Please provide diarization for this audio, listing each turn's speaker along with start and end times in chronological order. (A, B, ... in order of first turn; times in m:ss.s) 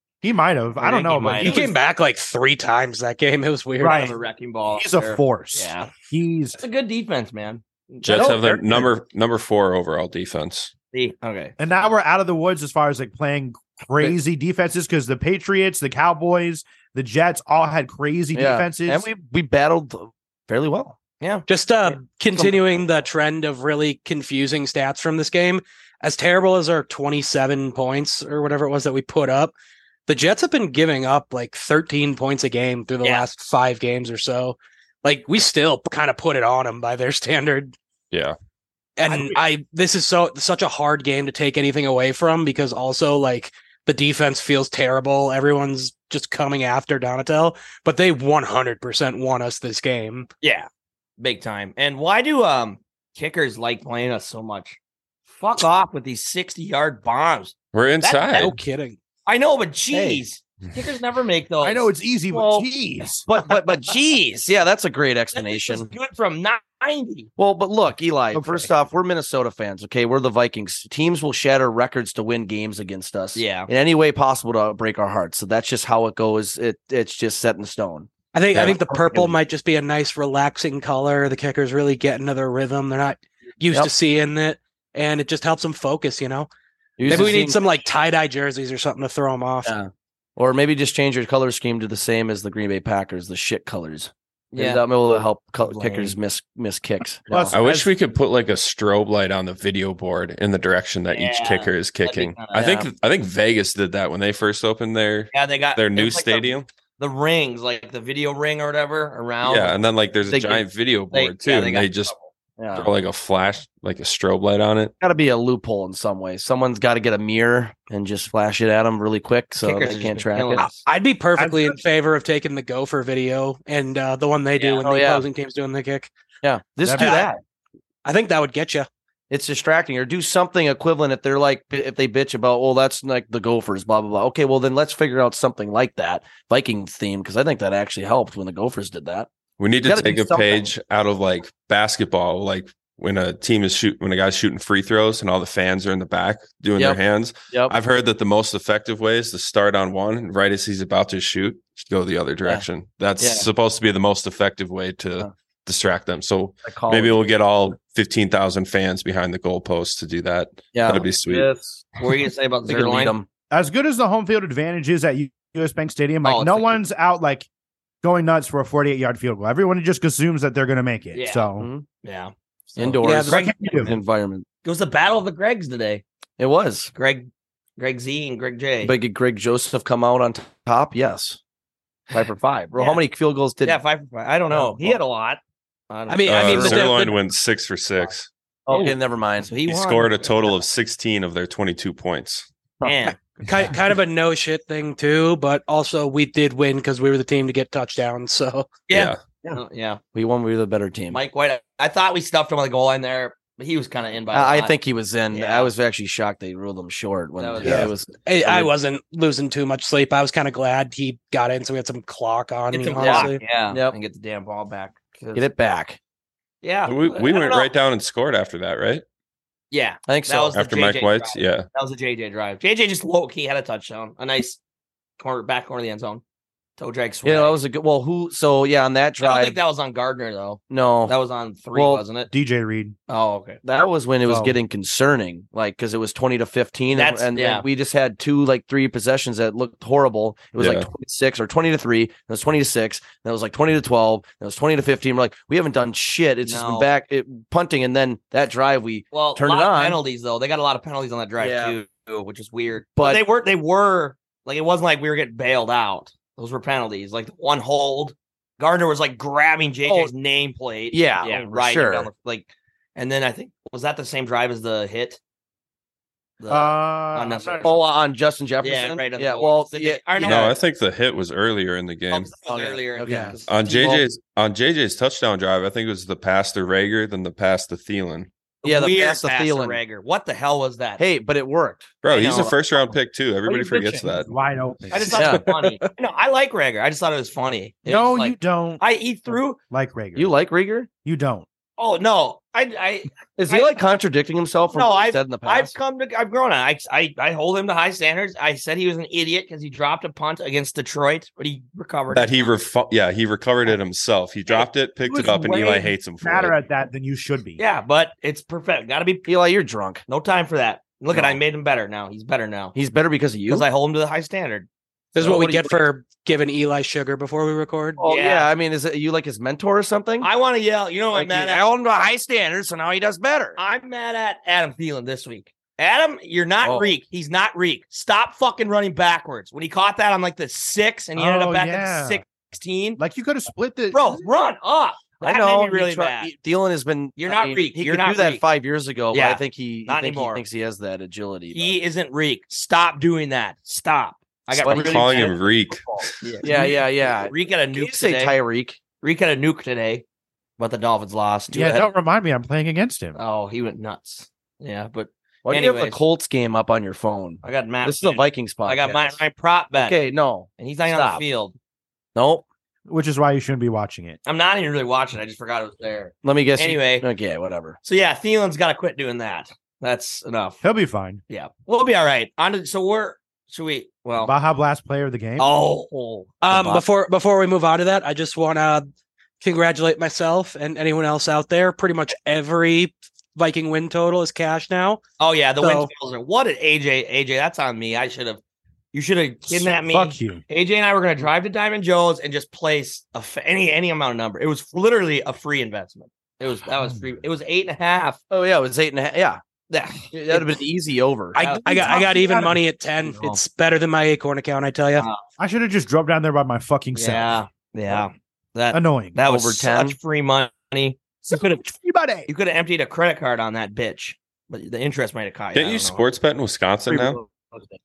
0:00.2-0:01.7 A
0:00.8-0:01.8 B
0:01.4-0:04.1 C
0:03.8-0:05.9 B
0:03.8-0:04.2 A
0:04.7-0:06.6 A
0:06.6-0:08.4 B
0:08.0-0:10.7 D
0:08.1-0:08.9 E
0:10.9-0:11.5 B
0:11.6-0:19.1 A
0:18.4-0:21.0 E
0:21.5-0:29.5 C
0:30.1-0:37.8 C
0:38.1-0:38.4 D
0:39.0-0:50.3 C
0:39.1-0:39.4 B
0:50.4-0:50.7 B
0:51.2-0:54.8 B
0:55.4-0:58.2 B
0:57.7-0:58.6 D
0:58.1-0:59.0 C
0:59.3-1:01.9 B
0:59.9-1:00.2 E
1:01.6-1:03.3 A
1:02.3-1:02.7 E
1:03.3-1:05.9 E
1:03.5-1:03.9 B
1:05.3-1:07.3 B
1:07.4-1:19.3 E
1:08.3-1:08.7 A
1:13.4-1:13.7 B
1:18.3-1:26.5 C
1:27.0-1:27.6 E
1:27.1-1:29.7 C
1:29.6-1:37.6 E
1:34.5-1:34.8 B
1:35.7-1:36.2 B
1:37.3-1:37.9 A
1:37.5-1:46.7 D
1:41.1-1:42.6 B
1:42.5-1:42.9 E
1:45.3-1:49.7 B
1:49.4-1:52.1 D
1:50.3-1:50.6 E
1:51.1-1:52.3 B
1:52.6-1:52.9 E
1:52.7-1:54.9 D
1:55.0-2:00.7 E
1:59.6-2:00.8 B
2:00.8-2:06.1 C
2:01.4-2:01.8 A
2:04.6-2:04.8 B
2:04.8-2:05.2 E
2:06.4-2:07.4 E
2:06.8-2:07.2 A
2:07.0-2:07.3 C
2:08.0-2:08.9 C
2:09.3-2:19.3 E
2:19.6-2:41.5 D
2:19.8-2:20.7 E
2:27.5-2:27.8 E
2:33.2-2:33.5 E
2:36.6-2:37.2 E
2:40.7-2:41.9 E
2:42.0-2:43.2 B
2:42.7-2:43.3 E
2:43.5-2:47.5 A
2:46.2-2:46.8 B
2:48.0-2:51.7 A
2:51.1-2:51.5 B
2:51.6-2:51.8 E
2:52.0-2:54.0 B
2:52.8-2:54.4 E
2:53.0-2:53.4 C
2:53.3-2:54.0 A
2:54.6-2:56.0 B
2:56.4-2:56.9 E
2:57.0-2:59.0 B
2:58.8-3:01.4 E
3:02.1-3:03.8 E
3:02.8-3:03.0 B
3:03.6-3:06.8 B
3:04.5-3:05.0 E
3:06.1-3:07.2 C
3:06.2-3:08.3 D
3:06.4-3:06.8 E
3:08.7-3:09.5 E
3:08.7-3:10.6 B
3:09.7-3:12.5 D
3:12.8-3:13.1 E
3:12.8-3:13.2 B
3:13.4-3:18.7 C
3:18.9-3:20.0 B
3:18.9-3:19.2 D
3:20.1-3:21.2 E
3:21.1-3:24.8 B
3:24.3-3:28.7 E
3:25.3-3:25.7 B
3:27.4-3:27.9 B
3:27.6-3:27.9 D
3:27.7-3:33.4 C
3:32.7-3:35.5 B
3:33.0-3:34.0 E
3:35.4-3:36.0 E
3:36.6-3:37.7 B
3:36.9-3:39.0 D
3:39.7-3:44.6 B
3:40.1-3:40.5 E
3:40.5-3:41.7 D
3:45.2-3:46.2 B
3:46.8-3:47.6 B
3:47.2-3:49.6 E
3:49.2-3:52.3 B
3:50.7-3:51.2 E
3:51.7-3:52.0 E
3:52.3-3:53.0 A
3:53.1-3:53.6 B
3:53.6-4:10.0 E
3:54.2-3:54.6 A
3:56.9-3:57.7 B
4:00.6-4:00.9 D
4:06.4-4:06.9 B
4:09.1-4:25.2 B
4:11.4-4:11.8 E
4:13.0-4:13.2 E
4:19.9-4:20.1 E
4:20.9-4:22.1 E
4:26.4-4:27.8 B
4:26.5-4:27.7 A
4:27.6-4:30.6 E
4:28.6-4:30.5 B
4:30.2-4:32.3 D
4:32.1-4:33.6 B
4:32.4-4:34.0 E
4:33.1-4:33.3 A
4:33.5-4:38.3 D
4:38.6-4:41.0 B
4:38.6-4:39.8 E
4:41.0-4:41.9 E
4:42.0-4:44.3 D
4:42.1-4:42.9 B
4:43.5-4:44.0 E
4:44.2-4:45.2 A
4:44.9-4:49.6 B
4:45.1-4:45.5 E
4:45.2-4:45.8 C
4:47.9-4:50.3 A
4:50.2-4:50.9 E
4:51.0-4:51.5 A
4:51.8-4:53.7 B
4:53.4-4:55.7 E
4:54.7-5:02.5 B
5:02.1-5:06.6 D
5:05.1-5:07.6 A
5:07.6-5:09.3 B
5:09.3-5:10.0 E
5:10.1-5:12.8 B
5:11.1-5:11.4 E
5:12.8-5:13.7 E
5:13.5-5:14.7 B
5:15.2-5:15.8 E
5:15.2-5:18.0 C
5:18.0-5:20.3 E
5:18.0-5:18.5 B
5:20.2-5:21.6 B
5:21.1-5:23.6 E
5:23.6-5:33.0 B
5:26.6-5:26.9 E
5:31.2-5:32.2 A
5:33.0-5:34.2 A
5:33.9-5:36.3 B
5:35.2-5:41.8 E
5:37.2-5:38.4 B
5:39.1-5:40.4 B
5:41.5-5:45.3 B
5:44.6-5:46.4 D
5:44.6-5:48.8 E
5:46.2-5:48.4 B
5:49.0-5:50.0 B
5:50.6-5:51.9 B
5:51.5-5:53.2 A
5:53.2-5:56.0 B
5:55.4-5:59.2 E
5:57.4-6:00.0 B
5:59.8-6:01.2 E
6:00.6-6:01.6 B
6:02.2-6:02.4 E
6:02.9-6:04.2 A
6:04.3-6:07.1 B
6:06.2-6:07.8 E
6:07.8-6:10.6 B
6:10.6-6:11.2 A
6:11.3-6:14.3 B
6:14.2-6:15.5 A
6:15.4-6:16.4 B
6:16.4-6:18.9 C
6:16.5-6:16.8 E
6:19.4-6:25.0 C
6:25.2-6:28.4 B
6:25.6-6:25.9 C
6:28.9-6:38.2 B
6:29.5-6:30.4 A
6:38.3-6:39.4 E
6:39.7-6:40.6 B
6:40.1-6:41.4 E
6:41.4-6:45.1 C
6:41.4-6:42.0 B
6:41.6-6:42.6 A
6:45.4-6:47.4 A
6:47.0-6:51.6 B
6:48.7-6:49.2 A
6:49.3-6:50.0 E
6:51.3-6:52.3 A
6:52.3-6:56.0 B
6:55.5-6:57.2 D
6:56.9-6:57.8 E